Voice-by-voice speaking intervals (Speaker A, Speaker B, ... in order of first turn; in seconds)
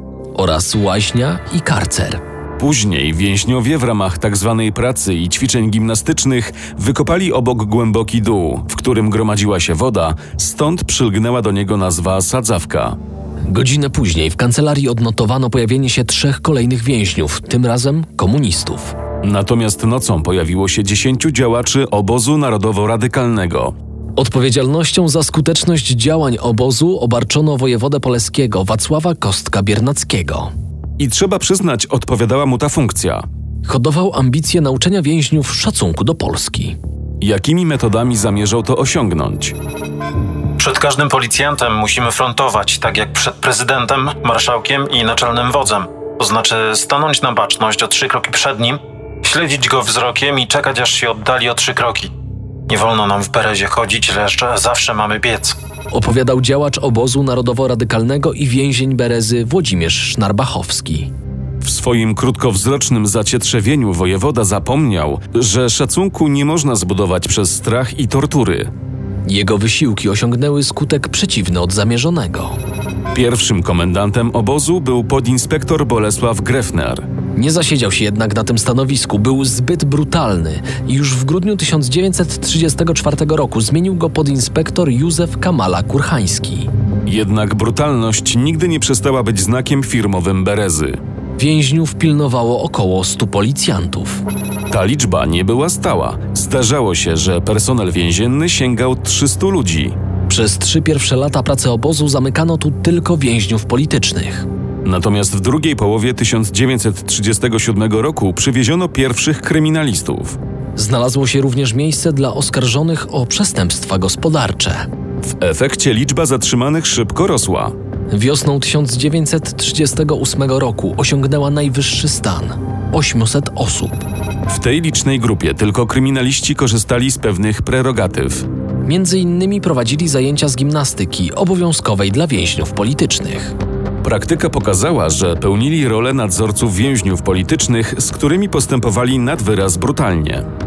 Speaker A: 0.3-2.2, 13.5-19.0, 24.2-30.5, 33.6-36.8, 55.9-61.1, 69.3-72.6, 77.3-86.7, 91.4-94.2, 100.3-104.5, 110.8-114.8, 118.1-124.0, 128.8-133.6
Speaker B: 2.6-13.0, 19.2-23.8, 31.0-33.2, 37.2-39.6, 61.6-68.7, 73.1-77.1, 87.1-91.0, 94.7-100.0, 104.8-110.4, 115.3-117.7, 124.5-128.5, 134.0-140.5
Speaker C: 40.6-52.1, 52.7-55.5